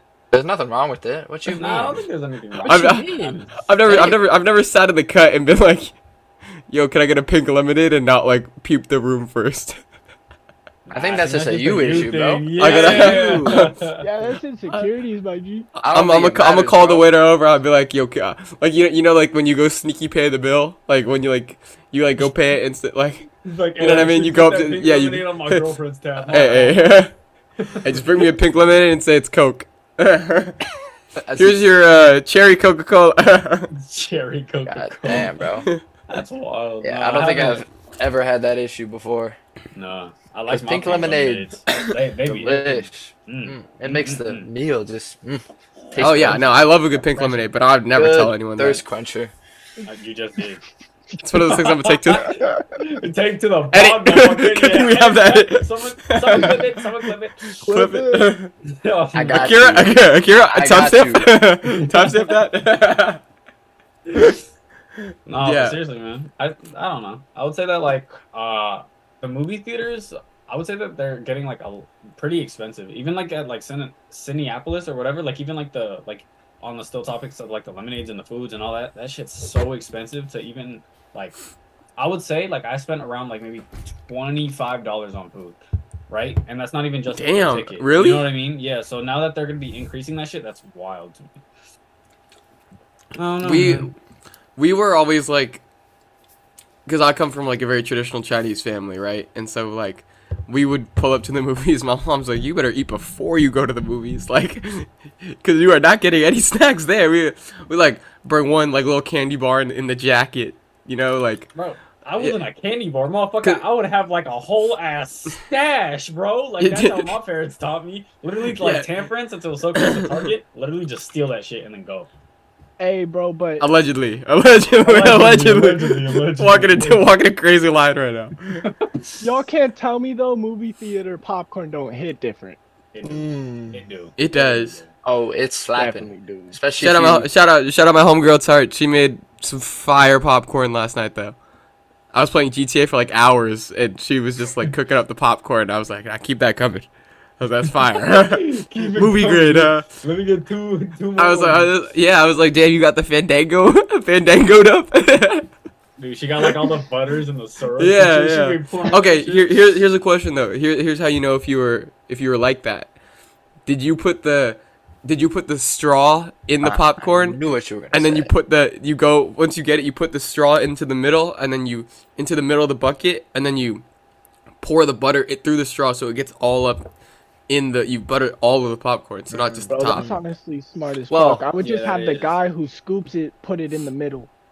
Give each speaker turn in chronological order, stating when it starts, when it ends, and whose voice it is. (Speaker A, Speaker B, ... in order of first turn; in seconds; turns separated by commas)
Speaker A: 0.3-2.0, Speaker B: 1.5-1.8, Speaker C: 1.5-3.5, Speaker A: 2.6-4.2, Speaker B: 2.6-5.9, Speaker B: 6.7-9.8, Speaker C: 10.8-14.0, Speaker A: 10.9-13.6, Speaker B: 12.6-13.7, Speaker D: 14.0-15.7, Speaker A: 15.7-17.1, Speaker B: 15.9-25.6, Speaker C: 23.4-26.9, Speaker B: 26.3-27.1, Speaker C: 27.6-28.3, Speaker B: 27.8-30.6, Speaker A: 31.1-31.7, Speaker B: 31.4-33.7, Speaker C: 33.7-37.6, Speaker A: 34.7-35.7, Speaker A: 36.8-39.4, Speaker C: 39.7-44.5, Speaker A: 40.5-41.5, Speaker A: 42.2-46.5, Speaker B: 46.0-48.8, Speaker C: 46.0-47.4, Speaker A: 47.9-49.3, Speaker C: 49.9-50.6, Speaker B: 51.2-52.4, Speaker C: 51.5-57.4, Speaker B: 53.7-56.8, Speaker B: 57.5-58.5, Speaker D: 57.6-58.4, Speaker C: 58.7-59.5, Speaker A: 59.1-61.4, Speaker B: 59.3-63.2, Speaker C: 61.7-62.3, Speaker C: 65.3-81.3, Speaker B: 65.4-65.8, Speaker C: 82.0-85.6, Speaker C: 86.1-91.4, Speaker B: 87.1-88.3, Speaker C: 93.2-93.9, Speaker B: 93.4-93.9, Speaker B: 94.6-95.6, Speaker B: 96.8-111.5, Speaker C: 111.5-122.1, Speaker B: 116.6-117.1, Speaker B: 118.6-118.9, Speaker B: 119.8-120.2, Speaker D: 122.8-123.7, Speaker B: 123.6-128.6, Speaker C: 124.8-127.0, Speaker C: 128.6-128.9, Speaker D: 129.2-132.6, Speaker C: 132.9-134.9, Speaker A: 133.0-133.8, Speaker B: 134.2-134.8, Speaker A: 135.0-137.3, Speaker D: 135.8-136.6, Speaker B: 136.8-141.3, Speaker B: 142.1-146.9, Speaker B: 147.4-149.9, Speaker C: 147.8-151.8, Speaker B: 151.2-155.5, Speaker C: 156.0-159.5, Speaker B: 157.8-162.9, Speaker B: 163.7-167.4, Speaker A: 166.6-168.3, Speaker B: 167.9-173.8, Speaker B: 174.6-176.9, Speaker B: 177.5-180.1, Speaker D: 179.7-184.3, Speaker A: 181.1-181.5, Speaker C: 181.6-182.4